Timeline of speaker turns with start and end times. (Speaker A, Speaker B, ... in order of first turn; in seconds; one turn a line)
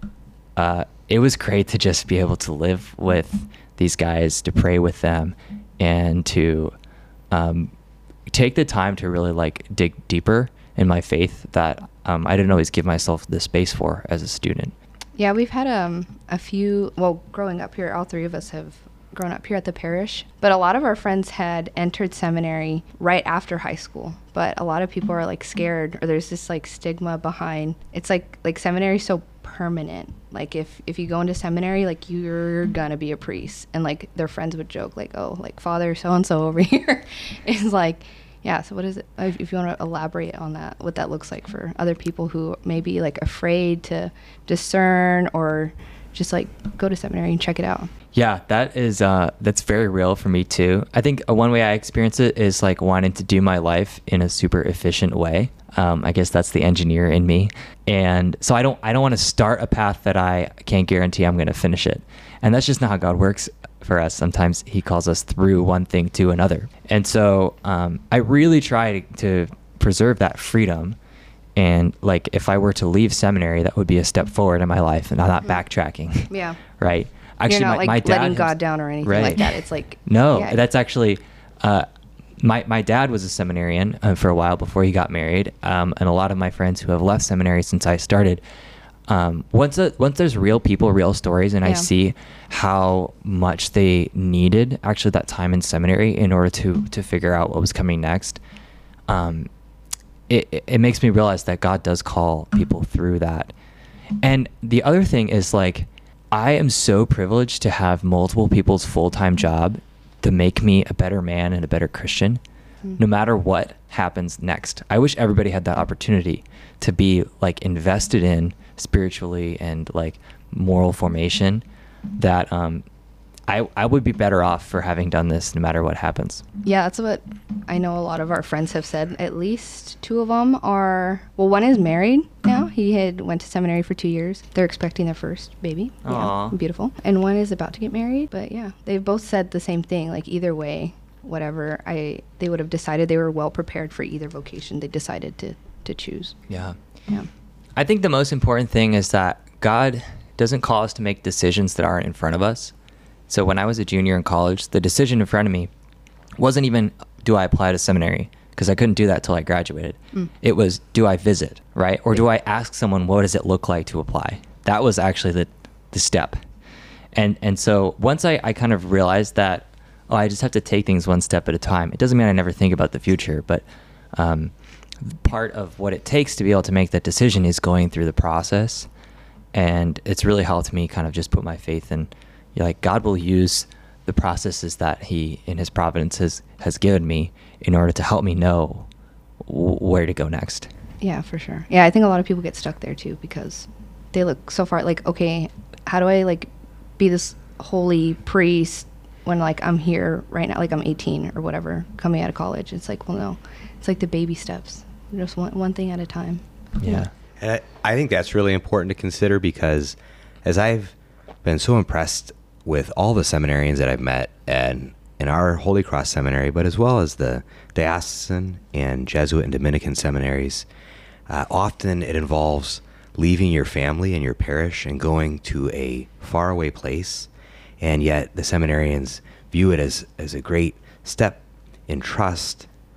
Speaker A: 0.6-6.7
Speaker A: 7.3-7.7
Speaker A: 8.3-14.7
Speaker B: 15.2-47.9
Speaker A: 48.1-71.0
Speaker A: 71.6-81.9
Speaker B: 76.3-76.6
Speaker B: 77.5-80.6
Speaker A: 82.4-88.4
Speaker A: 89.1-98.4
Speaker A: 99.1-99.5
Speaker A: 100.3-103.5
Speaker A: 104.2-112.4
Speaker A: 113.0-122.8
Speaker A: 123.5-126.4
Speaker B: 126.6-146.4
Speaker A: 136.0-136.6
Speaker A: 146.5-146.8
Speaker A: 147.8-152.7
Speaker A: 153.3-155.7
Speaker A: 156.4-166.4
Speaker A: 167.2-178.9
Speaker A: 179.5-188.9
Speaker A: 189.4-190.7
Speaker B: 191.0-207.1
Speaker A: 206.8-207.1
Speaker C: 207.4-220.7
Speaker C: 221.3-227.3
Speaker C: 227.8-232.7